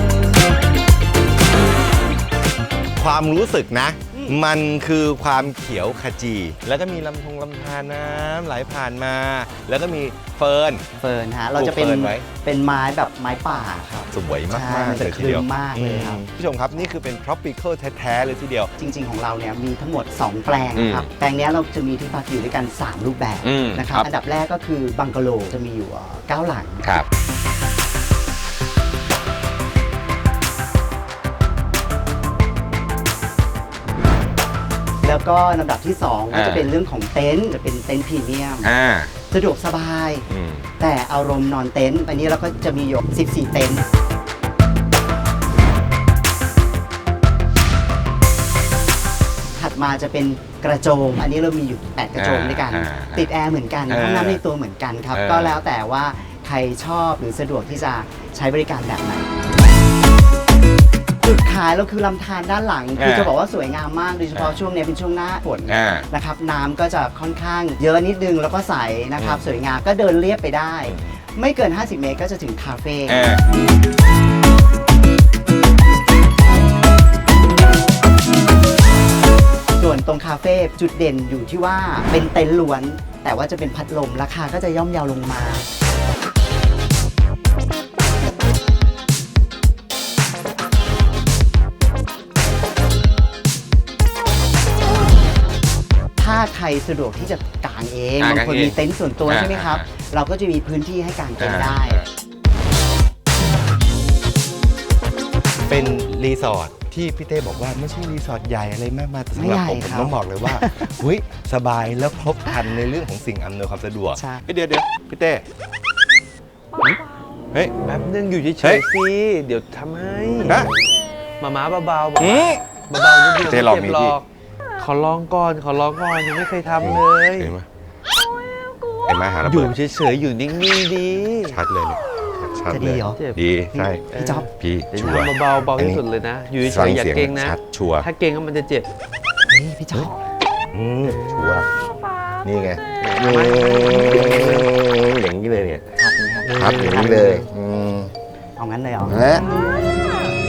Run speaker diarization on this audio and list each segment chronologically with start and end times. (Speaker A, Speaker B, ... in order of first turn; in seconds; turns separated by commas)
Speaker A: 3.0-10.8, Speaker B: 4.1-4.4, Speaker B: 11.0-16.2, Speaker A: 11.5-12.2, Speaker A: 14.1-18.7, Speaker B: 18.8-26.9, Speaker A: 20.7-21.1, Speaker A: 23.4-24.1, Speaker B: 35.0-38.7, Speaker A: 36.3-36.7, Speaker A: 38.6-39.1, Speaker B: 39.3-40.3, Speaker A: 40.3-40.7, Speaker B: 40.8-43.8, Speaker B: 49.5-59.3, Speaker A: 52.2-53.3, Speaker A: 53.9-54.4, Speaker A: 55.1-55.6, Speaker B: 61.2-73.2, Speaker A: 63.0-63.3, Speaker A: 65.7-66.1, Speaker A: 70.9-71.1, Speaker A: 73.1-73.4, Speaker B: 79.8-85.7, Speaker B: 96.2-102.0, Speaker A: 98.2-99.8, Speaker A: 101.4-102.1, Speaker A: 105.7-115.4, Speaker B: 109.3-110.9, Speaker B: 114.2-114.4, Speaker C: 117.8-120.6, Speaker C: 121.4-124.2, Speaker A: 122.2-122.6, Speaker A: 123.4-124.2, Speaker C: 124.8-127.5, Speaker A: 126.8-127.7, Speaker A: 129.0-129.7, Speaker C: 129.4-131.6, Speaker A: 131.4-136.0, Speaker B: 132.7-133.2, Speaker B: 133.7-134.4, Speaker C: 134.1-138.9, Speaker A: 136.6-138.1, Speaker B: 139.5-140.2, Speaker A: 140.7-141.7, Speaker A: 142.4-145.9, Speaker C: 143.0-144.4, Speaker B: 146.0-147.4, Speaker A: 146.4-148.1, Speaker B: 148.6-149.2, Speaker A: 149.1-149.4